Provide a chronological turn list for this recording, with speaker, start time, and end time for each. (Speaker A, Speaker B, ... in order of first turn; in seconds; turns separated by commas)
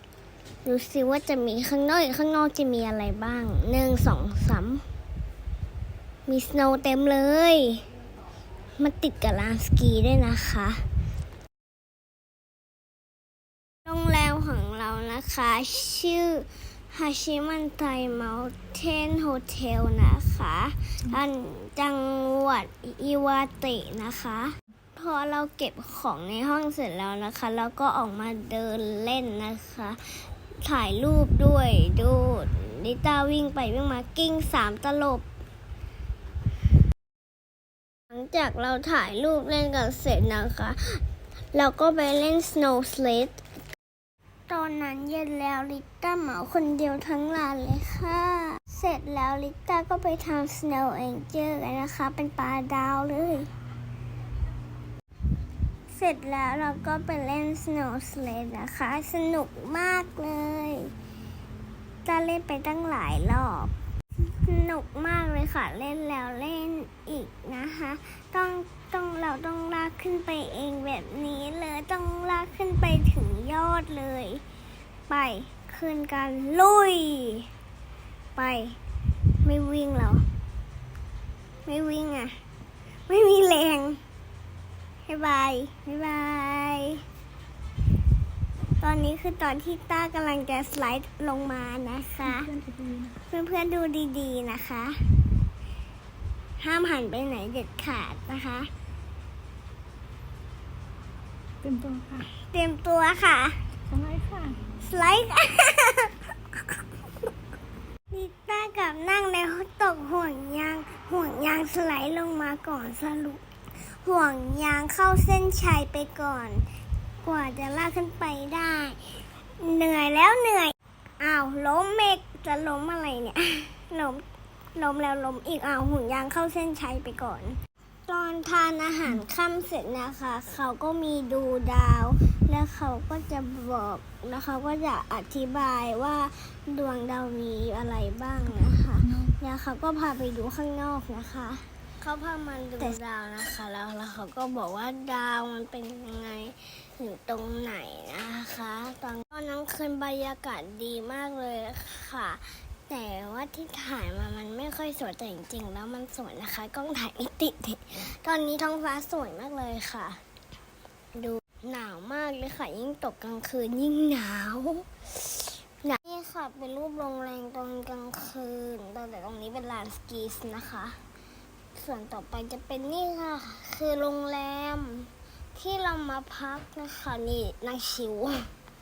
Speaker A: 0.6-4.8, Speaker A: 6.3-7.8, Speaker A: 8.8-10.8, Speaker A: 13.8-35.3, Speaker A: 38.1-41.0, Speaker A: 41.5-43.4, Speaker A: 44.5-53.5, Speaker A: 55.9-60.9, Speaker A: 62.0-74.4, Speaker A: 75.1-77.5, Speaker A: 78.3-78.8, Speaker A: 79.4-80.2, Speaker A: 81.7-82.3, Speaker A: 83.1-84.0, Speaker A: 85.1-87.0, Speaker A: 88.8-92.5, Speaker B: 92.2-93.2, Speaker A: 93.3-95.0, Speaker A: 96.6-98.7, Speaker B: 101.6-102.3, Speaker A: 102.5-103.6, Speaker B: 103.9-104.6, Speaker A: 104.8-106.2, Speaker A: 108.1-113.4, Speaker A: 113.9-116.6, Speaker A: 117.2-124.2, Speaker A: 124.7-160.2, Speaker A: 161.1-171.0, Speaker A: 171.8-178.5